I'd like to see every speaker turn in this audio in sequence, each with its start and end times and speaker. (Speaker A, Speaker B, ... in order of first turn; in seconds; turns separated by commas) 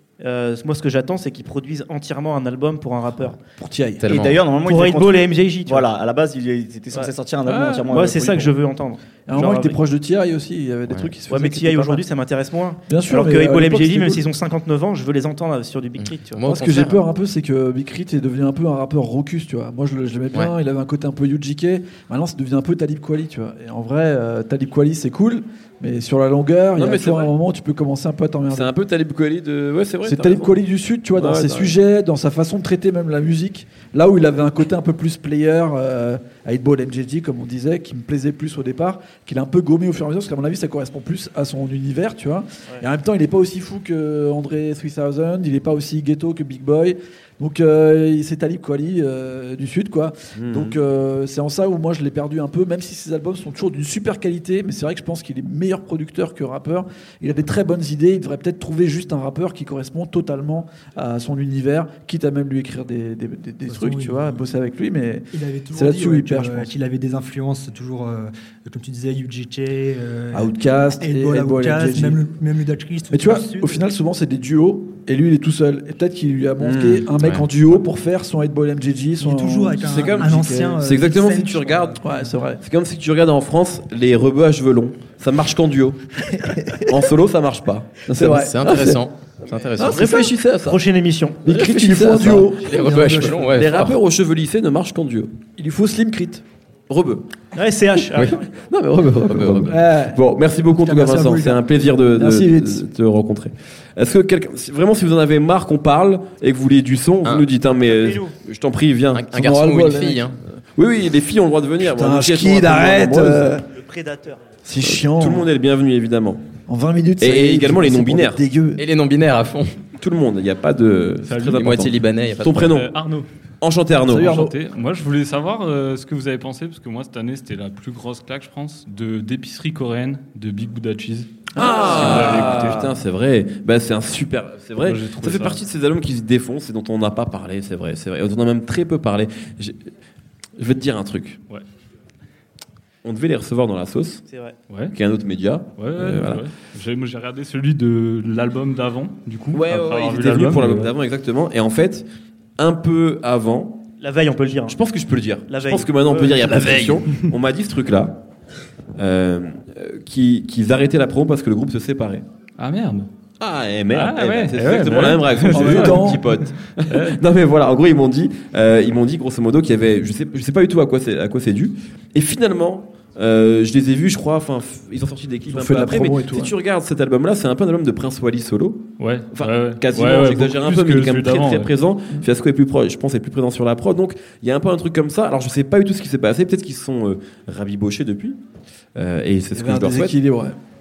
Speaker A: 0.2-3.4, Speaker B: 3.6-4.1, Speaker C: 4.0-4.4, Speaker D: 4.0-8.6, Speaker A: 4.6-5.9, Speaker E: 7.5-7.8, Speaker A: 7.9-9.8, Speaker B: 9.2-12.0, Speaker C: 10.9-11.1, Speaker A: 11.3-16.4, Speaker B: 12.9-14.2, Speaker C: 16.0-17.0, Speaker B: 16.4-28.7, Speaker E: 26.8-27.3, Speaker E: 28.5-30.6, Speaker B: 30.0-66.7, Speaker E: 31.1-31.7, Speaker E: 50.4-50.8, Speaker F: 63.7-64.5, Speaker F: 65.3-73.8, Speaker B: 70.3-72.2, Speaker B: 73.1-80.8, Speaker E: 76.6-77.1, Speaker C: 77.2-77.5, Speaker F: 79.2-82.3, Speaker E: 79.8-82.0, Speaker B: 82.0-82.6, Speaker E: 82.6-89.0, Speaker B: 86.4-86.8, Speaker B: 88.1-88.6, Speaker C: 88.4-90.2, Speaker E: 89.8-90.8, Speaker B: 89.8-90.3, Speaker A: 90.6-91.4, Speaker B: 91.4-93.3, Speaker E: 91.4-95.5, Speaker C: 92.5-94.0, Speaker F: 92.8-93.4, Speaker B: 95.6-96.4, Speaker E: 96.9-97.3, Speaker A: 97.5-98.5, Speaker E: 98.3-109.3, Speaker C: 99.3-99.7, Speaker B: 99.7-100.2, Speaker F: 100.8-101.6, Speaker B: 101.0-101.5, Speaker B: 102.1-102.8, Speaker C: 107.2-107.5, Speaker A: 107.8-108.3, Speaker C: 109.1-110.4, Speaker B: 109.3-110.3, Speaker E: 110.8-113.5, Speaker B: 111.8-113.7, Speaker A: 113.7-114.5, Speaker B: 114.6-115.5, Speaker E: 114.8-116.5, Speaker B: 116.7-118.8, Speaker E: 117.2-118.4, Speaker C: 118.8-119.8, Speaker E: 120.0-122.9, Speaker G: 121.2-121.7, Speaker C: 121.5-122.7, Speaker G: 122.6-123.3, Speaker E: 123.6-124.3, Speaker B: 124.1-124.5, Speaker G: 124.3-132.9, Speaker B: 131.6-132.8, Speaker E: 131.6-139.8, Speaker G: 134.8-135.6, Speaker E: 140.6-141.4, Speaker E: 143.0-144.2, Speaker A: 144.3-144.6, Speaker G: 144.7-144.9, Speaker E: 144.9-146.4, Speaker G: 145.8-150.9, Speaker E: 149.5-152.1, Speaker E: 152.6-153.8, Speaker A: 154.0-154.8, Speaker E: 154.7-158.2, Speaker A: 155.5-157.0, Speaker E: 159.0-162.2, Speaker G: 162.6-163.1, Speaker E: 163.4-188.4, Speaker G: 163.9-166.2, Speaker B: 165.5-166.2, Speaker G: 166.9-167.2, Speaker B: 175.5-176.5, Speaker G: 179.0-181.7, Speaker E: 188.9-190.2, Speaker B: 189.5-190.6